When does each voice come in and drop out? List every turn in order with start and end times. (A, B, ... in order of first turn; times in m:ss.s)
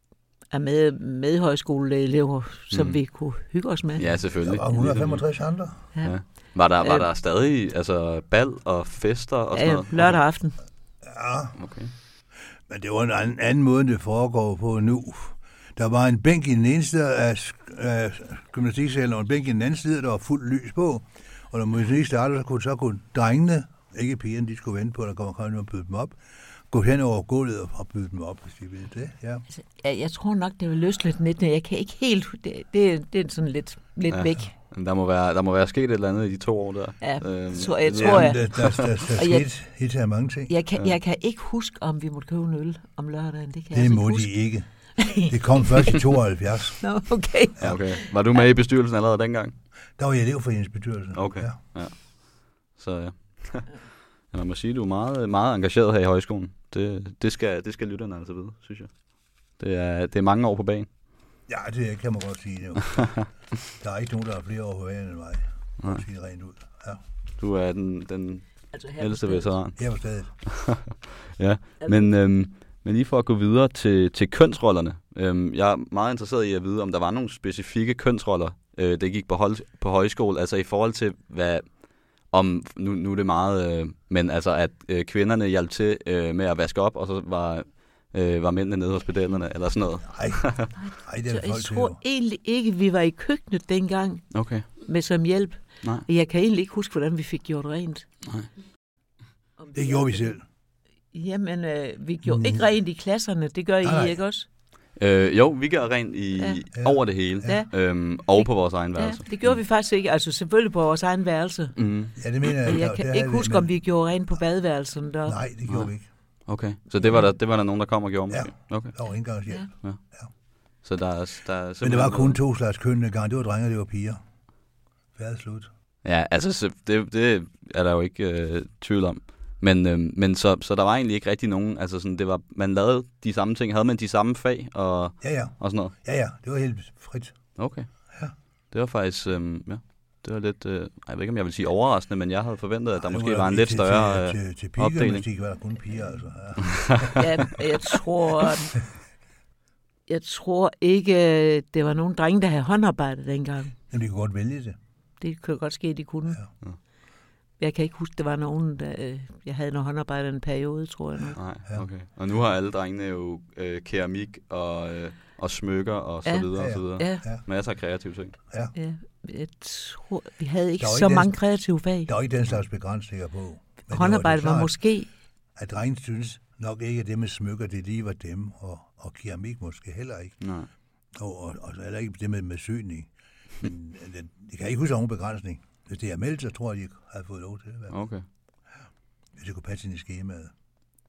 0:00.5-0:04.2 A
0:02.7-0:03.0 B
0:04.0-0:05.3 B
0:04.4-0:05.9 C
0:06.0-0:10.2 B
0:06.8-0:07.1 A
0:09.5-0:10.6 A
0:11.0-0:11.6 C
0:11.6-0:11.9 B
0:12.7-0:26.2 C
0:26.7-0:29.4 C
0:29.5-0:34.5 A
0:34.1-0:39.0 B
0:37.0-0:39.5 A
0:38.0-0:40.5 C
0:40.5-0:44.3 A
0:43.7-0:46.8 C
0:45.0-0:46.0 A
0:46.8-0:48.0 A
0:47.6-0:49.5 B
0:50.0-0:51.6 C
0:51.1-0:53.8 B
0:54.3-0:58.9 B
0:59.6-1:00.9 B
1:01.5-1:03.2 C
1:03.8-1:07.0 C
1:07.4-1:21.7 B
1:08.7-1:09.6 A
1:09.8-1:10.4 C
1:11.8-1:12.1 A
1:22.3-1:30.7 B
1:30.1-1:32.0 C
1:30.8-1:38.0 A
1:34.3-1:34.6 B
1:39.6-1:40.3 A
1:39.7-1:40.4 C
1:41.1-1:44.5 A
1:42.2-1:42.7 C
1:43.8-1:44.2 C
1:45.0-1:49.6 B
1:46.4-1:46.6 A
1:46.7-1:47.6 C
1:47.4-1:47.7 A
1:48.2-1:51.8 A
1:51.8-1:52.2 B
1:52.2-1:53.7 C
1:52.5-1:55.4 A
1:55.2-1:56.1 C
1:56.5-1:59.2 B
1:58.3-2:00.3 C
2:00.8-2:02.4 B
2:01.8-2:04.2 C
2:05.1-2:05.7 C
2:06.0-2:15.9 B
2:15.2-2:17.5 C
2:17.6-2:25.2 B
2:23.0-2:27.5 C
2:26.7-2:27.1 B
2:27.2-2:28.7 A
2:30.1-2:33.7 A
2:33.9-2:34.8 C
2:35.2-2:36.4 A
2:37.6-2:41.4 A
2:41.4-2:48.4 B
2:46.2-2:47.2 A
2:46.6-2:47.4 C
2:48.7-2:52.1 A
2:50.8-2:51.5 C
2:52.0-2:54.8 C
2:53.9-2:55.1 A
2:55.6-3:00.4 C
3:00.4-3:00.7 B
3:01.2-3:08.0 C
3:07.9-3:08.2 B
3:09.4-3:10.5 C